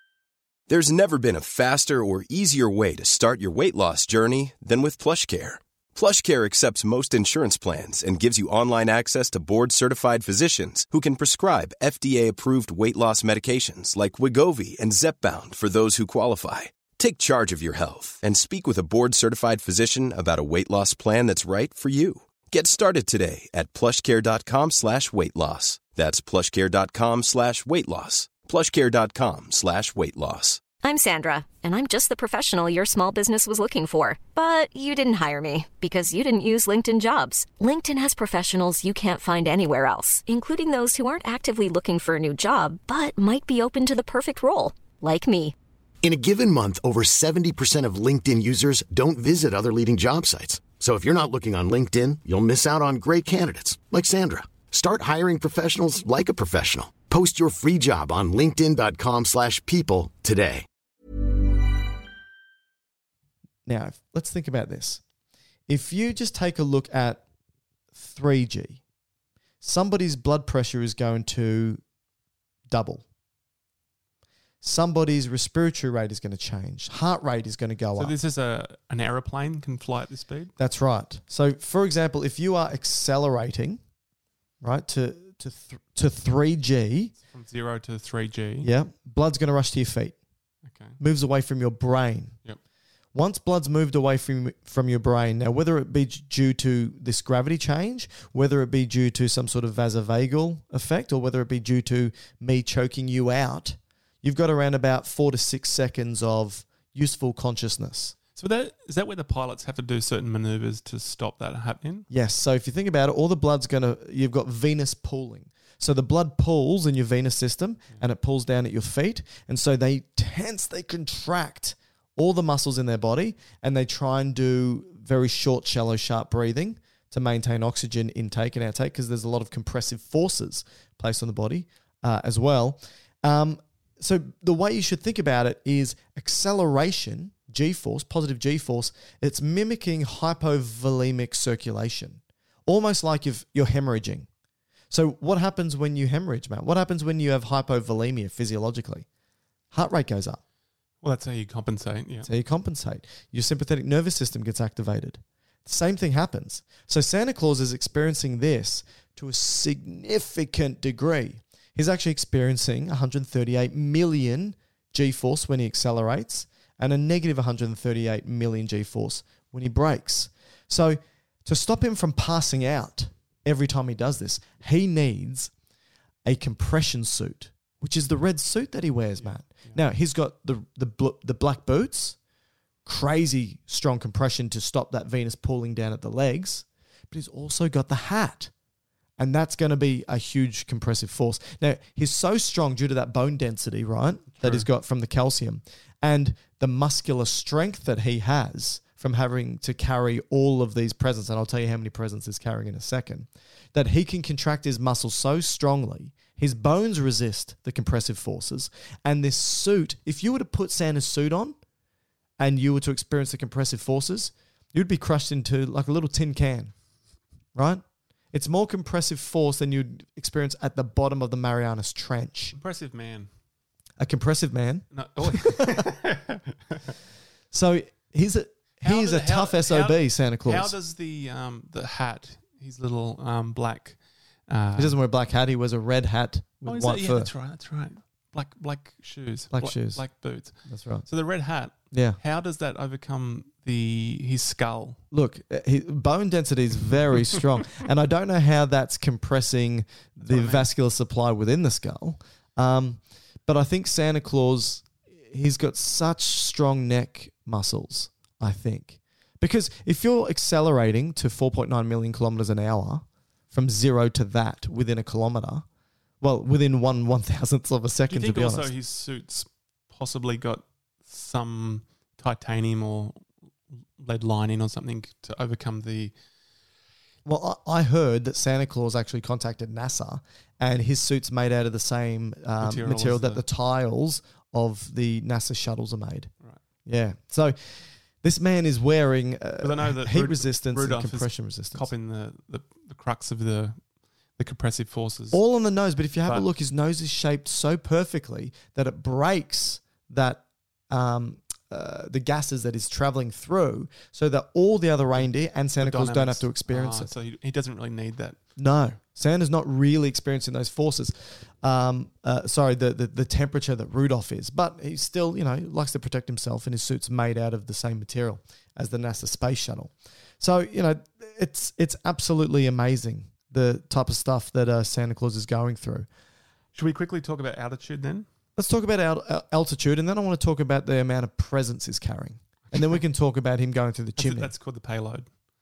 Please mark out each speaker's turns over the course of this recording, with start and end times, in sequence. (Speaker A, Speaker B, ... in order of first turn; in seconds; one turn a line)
Speaker A: 0.7-30.6
Speaker B: 30.8-45.5
Speaker C: 46.0-60.6
Speaker D: 63.6-65.0
Speaker D: 65.7-67.2
Speaker D: 67.9-68.8
Speaker D: 69.6-71.8
Speaker D: 72.7-73.0
Speaker D: 74.6-78.1
Speaker E: 78.0-80.5
Speaker D: 80.6-83.8
Speaker D: 84.6-87.1
Speaker E: 87.2-88.7
Speaker D: 88.6-90.2
Speaker E: 90.7-91.0
Speaker D: 91.0-92.3
Speaker D: 93.1-108.2
Speaker E: 108.3-112.1
Speaker D: 112.1-144.3
Speaker D: 144.9-149.1
Speaker D: 149.7-150.4
Speaker E: 151.0-152.3
Speaker D: 152.2-175.5
Speaker D: 176.2-182.2
Speaker E: 179.2-179.8
Speaker D: 182.8-188.5
Speaker D: 189.2-211.6
Speaker E: 194.3-194.7
Speaker D: 212.4-216.7
Speaker D: 217.5-222.6
Speaker E: 222.5-223.3
Speaker D: 224.0-225.8
Speaker E: 224.9-226.9
Speaker D: 227.5-230.7
Speaker E: 228.8-234.0
Speaker E: 234.5-234.9
Speaker D: 234.8-237.3
Speaker E: 236.6-245.0
Speaker D: 239.5-240.0
Speaker D: 240.7-241.1
Speaker D: 241.9-242.2
Speaker D: 245.1-265.6
Speaker E: 250.2-250.7
Speaker D: 266.2-268.7
Speaker E: 268.1-273.2
Speaker E: 274.0-276.1
Speaker D: 277.2-286.3
Speaker E: 282.6-283.4
Speaker D: 286.9-291.9
Speaker E: 289.6-293.8
Speaker E: 294.4-295.4
Speaker D: 295.3-307.1
Speaker E: 305.8-308.4
Speaker D: 308.6-326.1
Speaker E: 326.7-328.2
Speaker D: 328.6-334.5
Speaker E: 334.2-335.3